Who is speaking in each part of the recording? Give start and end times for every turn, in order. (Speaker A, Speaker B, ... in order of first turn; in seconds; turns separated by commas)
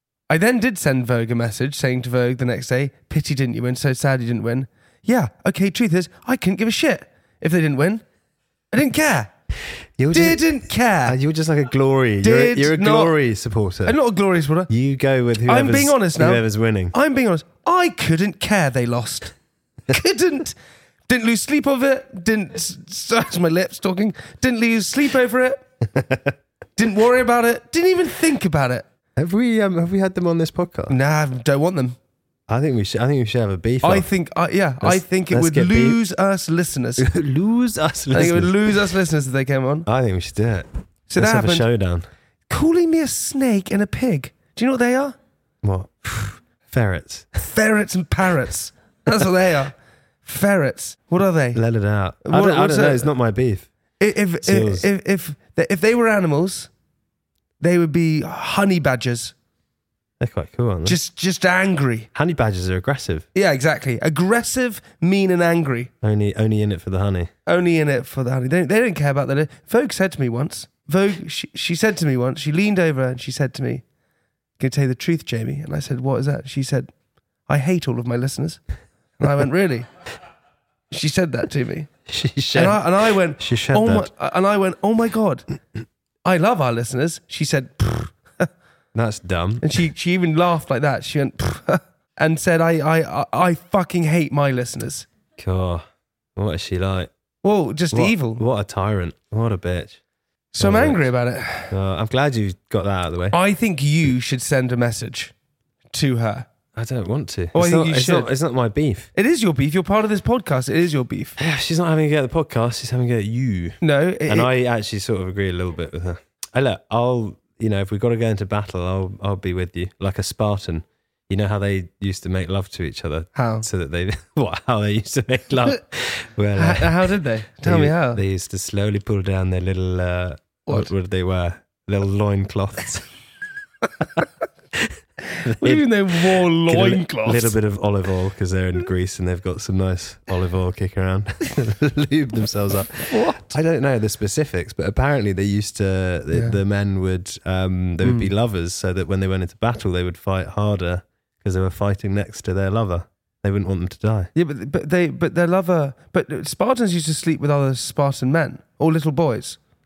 Speaker A: 0.3-8.0, Speaker A: 8.7-9.3, Speaker B: 10.0-14.0, Speaker A: 10.1-11.2, Speaker A: 12.2-13.2, Speaker A: 13.8-14.7, Speaker B: 14.7-16.9, Speaker A: 15.4-19.3, Speaker A: 19.9-20.6, Speaker A: 21.1-25.6, Speaker B: 25.9-26.3, Speaker A: 26.8-28.9, Speaker B: 29.2-31.0, Speaker A: 30.9-32.0, Speaker B: 32.5-34.1, Speaker A: 33.8-37.1, Speaker B: 34.8-36.0, Speaker B: 37.0-38.7, Speaker A: 38.1-39.9, Speaker B: 39.9-42.1, Speaker A: 41.1-41.7, Speaker A: 42.5-45.2, Speaker B: 45.6-47.4, Speaker A: 47.4-51.6, Speaker B: 51.5-53.7, Speaker A: 52.2-53.1, Speaker A: 54.0-56.7, Speaker B: 54.4-54.9, Speaker A: 57.6-59.3, Speaker B: 60.2-61.0, Speaker A: 60.9-62.1, Speaker B: 62.1-63.3, Speaker A: 63.4-65.9, Speaker B: 66.0-67.3, Speaker A: 67.5-73.8, Speaker A: 74.6-76.9, Speaker A: 77.5-78.6, Speaker A: 79.2-79.9, Speaker A: 80.9-81.9, Speaker B: 82.1-84.1, Speaker A: 82.5-85.5, Speaker A: 86.2-88.5, Speaker B: 88.9-89.7, Speaker A: 89.6-95.1, Speaker B: 95.4-97.1, Speaker A: 97.4-98.4, Speaker B: 97.9-100.0, Speaker A: 100.5-101.7, Speaker B: 100.6-101.1, Speaker B: 101.7-103.4, Speaker A: 103.3-105.3, Speaker A: 105.9-106.5, Speaker B: 106.7-109.1, Speaker A: 107.5-108.3, Speaker A: 109.2-111.4, Speaker B: 111.4-133.1, Speaker A: 113.8-114.5, Speaker A: 123.3-123.7, Speaker A: 126.6-128.2, Speaker B: 135.4-154.3, Speaker A: 135.6-137.6, Speaker A: 143.1-143.6, Speaker A: 146.3-146.6, Speaker A: 148.0-148.3, Speaker A: 154.3-159.6